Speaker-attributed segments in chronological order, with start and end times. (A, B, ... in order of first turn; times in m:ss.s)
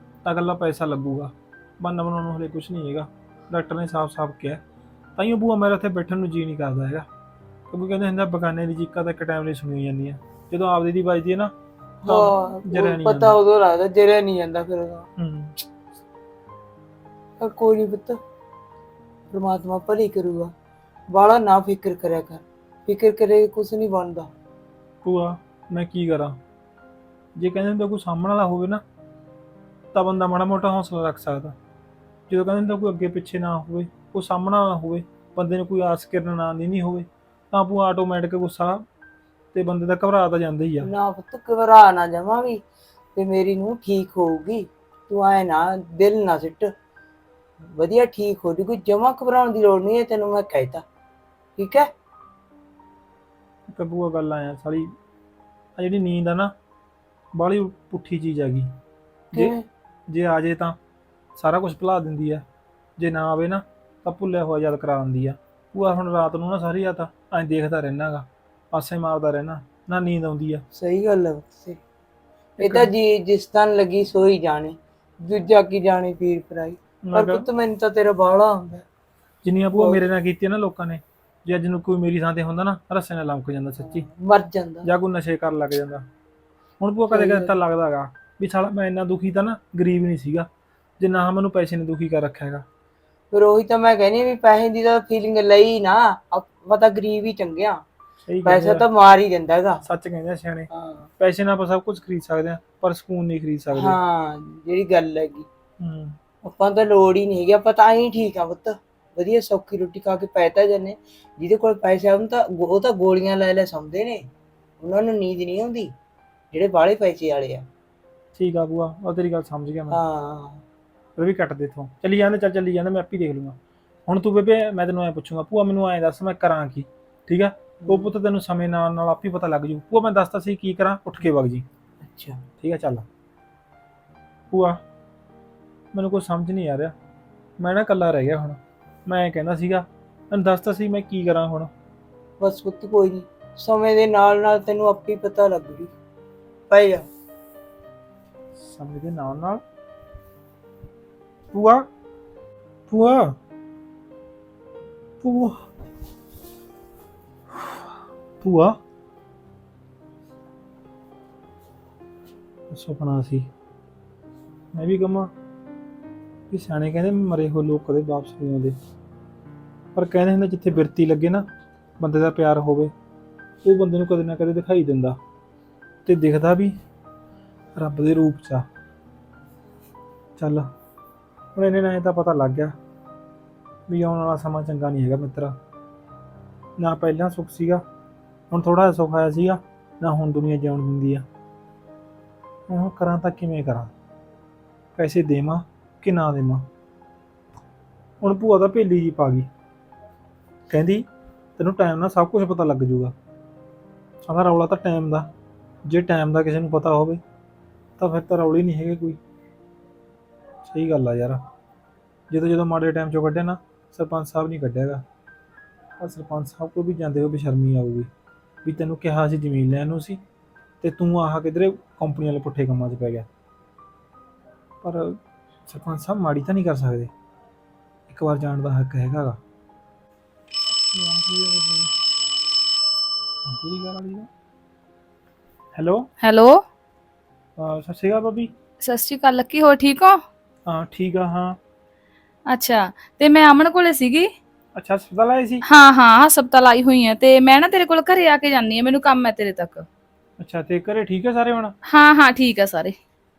0:00.2-0:04.6 A
0:05.2-0:07.1 A
0:07.7-0:13.4 A
0:12.1-0:15.1 B
0:15.2-0:15.6 A
0:17.4-0:18.2 B
0:19.3-0:20.5 B
0:21.1-0:24.3 B
0:25.0-0:26.4 A
0:27.4-0:28.8 A
0:29.9-0:31.6 A
0:32.3-0:38.9 A
0:39.5-0:40.9 A
0:40.8-0:42.6 B
0:43.2-0:46.7 B
0:47.7-0:50.8 B
0:51.6-0:51.9 B
0:53.7-0:54.9 A
0:55.8-0:56.5 A
0:57.3-0:58.7 A
0:59.3-0:59.6 B
1:00.1-1:00.8 A
1:01.4-1:02.4 A
1:03.0-1:10.6 A
1:10.7-1:11.8 B
1:12.6-1:12.9 A
1:12.6-1:18.9 B
1:17.0-1:17.5 A
1:19.4-1:24.1 A
1:19.7-1:20.0 B
1:23.8-1:24.9 B
1:24.8-1:26.1 A
1:26.8-1:30.5 A
1:27.1-1:27.5 B
1:31.0-1:32.6 A
1:33.3-1:37.8 B
1:38.3-1:38.9 A
1:38.4-1:39.8 B
1:39.8-1:44.0 A
1:40.7-1:41.1 B
1:43.7-1:45.5 B
1:45.8-1:46.2 A
1:46.4-1:54.3 B
1:54.8-1:55.9 B
1:56.5-1:57.7 B
1:58.4-2:00.0 A
1:59.9-2:00.6 B
2:01.2-2:11.7 A
2:07.8-2:08.1 B
2:12.0-2:12.5 B
2:12.6-2:13.1 A
2:14.5-2:14.8 A
2:15.9-2:17.0 A
2:17.6-2:21.7 A
2:22.4-2:25.9 B
2:26.7-2:27.1 B
2:28.6-2:29.6 A
2:31.5-2:31.9 A
2:32.9-2:33.4 A
2:35.2-2:35.7 A
2:37.5-2:38.8 A
2:42.7-2:43.5 A
2:44.7-2:45.3 A
2:46.5-2:48.8 A
2:50.0-2:51.4 A
2:52.0-2:52.9 A
2:53.6-2:55.2 A
2:56.0-2:56.8 A
2:57.8-2:58.7 A
3:00.4-3:00.7 A
3:01.6-3:02.8 A
3:03.9-3:05.6 A
3:06.8-3:07.8 A
3:08.5-3:11.3 A
3:12.7-3:13.9 A
3:15.0-3:16.7 A
3:18.2-3:19.5 A
3:20.7-3:23.1 A
3:24.2-3:25.3 A
3:25.8-3:27.2 A
3:28.0-3:29.2 A
3:30.6-3:31.4 A
3:32.3-3:35.0 A
3:36.0-3:38.1 A
3:38.6-3:40.2 A
3:40.8-3:43.3 A
3:44.8-3:47.1 A
3:48.1-3:49.4 A
3:50.7-3:52.0 A
3:53.4-3:54.3 A
3:55.7-3:56.1 A
3:56.2-3:56.6 C
3:57.6-3:58.5 A
3:58.8-4:00.2 C
4:00.7-4:01.6 A
4:02.5-4:04.3 C
4:04.7-4:05.6 A
4:05.6-4:09.9 C
4:10.4-4:11.8 A
4:11.8-4:13.0 C